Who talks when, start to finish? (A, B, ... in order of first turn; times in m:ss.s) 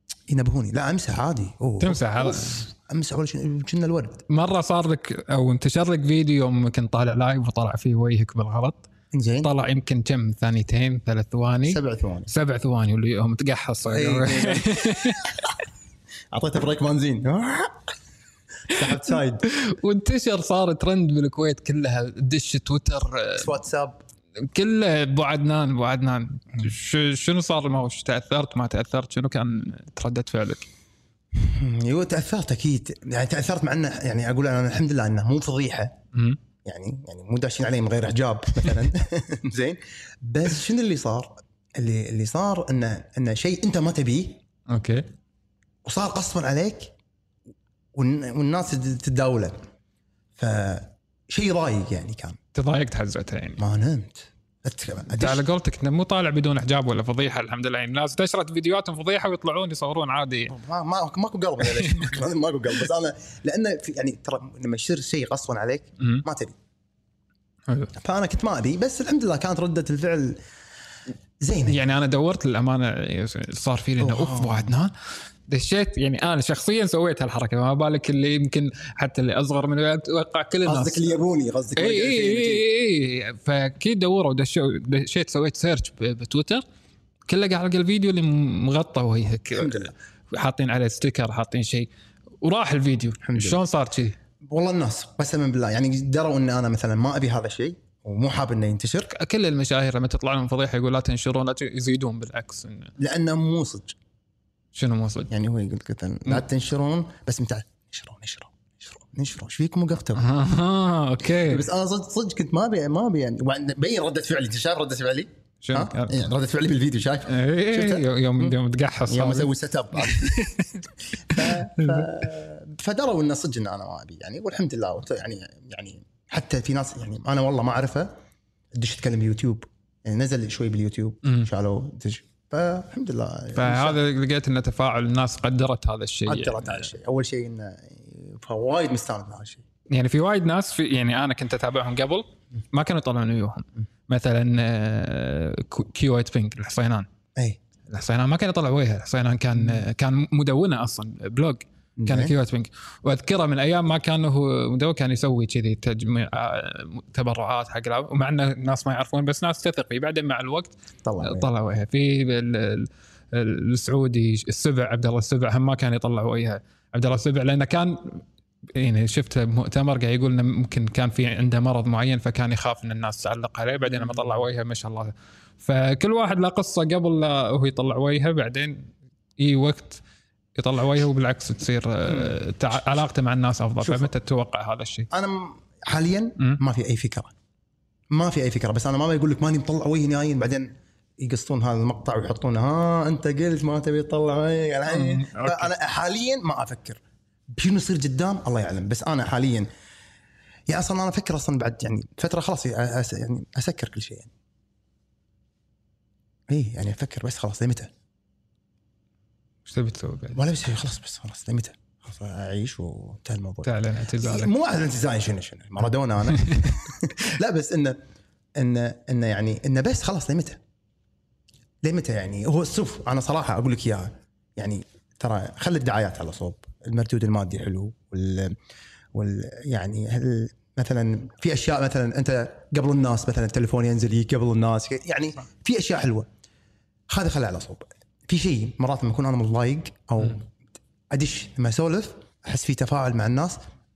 0:00.3-0:04.3 A
0:01.8-0:02.7 B
0:04.3-0:08.9 B
0:09.1-0:09.5 A
0:09.4-0:15.5 B
0:11.6-0:12.3 A
0:13.9-0:15.1 A
0:16.3-0:17.9 A
0:18.7-0:19.5 A
0:18.7-0:23.5 B
0:23.4-0:24.0 A
0:24.5-0:30.7 B
0:31.4-0:36.0 A
0:36.1-0:36.4 B
0:36.6-0:44.4 A
0:44.7-0:45.1 B
0:45.8-0:46.9 A
0:47.9-0:49.6 A
0:50.4-0:52.4 A
0:52.5-0:53.6 B
0:53.6-0:55.4 A
0:55.2-1:00.5 B
1:00.5-1:06.6 A
1:01.6-1:02.1 B
1:06.0-1:06.2 B
1:07.7-1:07.9 B
1:08.0-1:10.4 A
1:11.4-1:11.8 A
1:11.7-1:15.0 B
1:14.0-1:14.7 A
1:15.5-1:21.2 B
1:20.6-1:22.7 A
1:21.8-1:26.6 B
1:27.3-1:31.9 B
1:29.5-1:29.9 A
1:32.4-1:34.2 B
1:33.2-1:33.6 A
1:34.4-1:39.1 A
1:39.1-1:42.9 B
1:43.0-1:44.0 A
1:44.7-1:45.3 B
1:45.3-1:50.2 A
1:50.1-1:51.7 B
1:51.4-1:58.6 A
1:55.6-1:56.3 B
1:57.3-2:02.1 B
1:59.1-2:08.1 A
2:08.8-2:14.0 A
2:13.5-2:16.9 B
2:16.3-2:19.6 A
2:19.9-2:27.1 B
2:27.9-3:00.0 B
2:32.0-2:32.4 A
2:41.0-2:41.5 A
3:00.6-3:05.1 B
3:03.8-3:04.1 A
3:05.1-3:07.3 A
3:08.1-3:19.7 A
3:14.9-3:15.7 B
3:20.7-3:24.3 A
3:26.5-3:27.9 A
3:29.6-3:30.4 B
3:30.3-3:38.0 A
3:33.6-3:34.5 B
3:36.3-3:36.7 B
3:38.6-3:40.6 A
3:41.8-3:48.6 A
3:49.1-3:56.3 A
3:57.1-4:00.5 A
4:01.1-4:03.6 A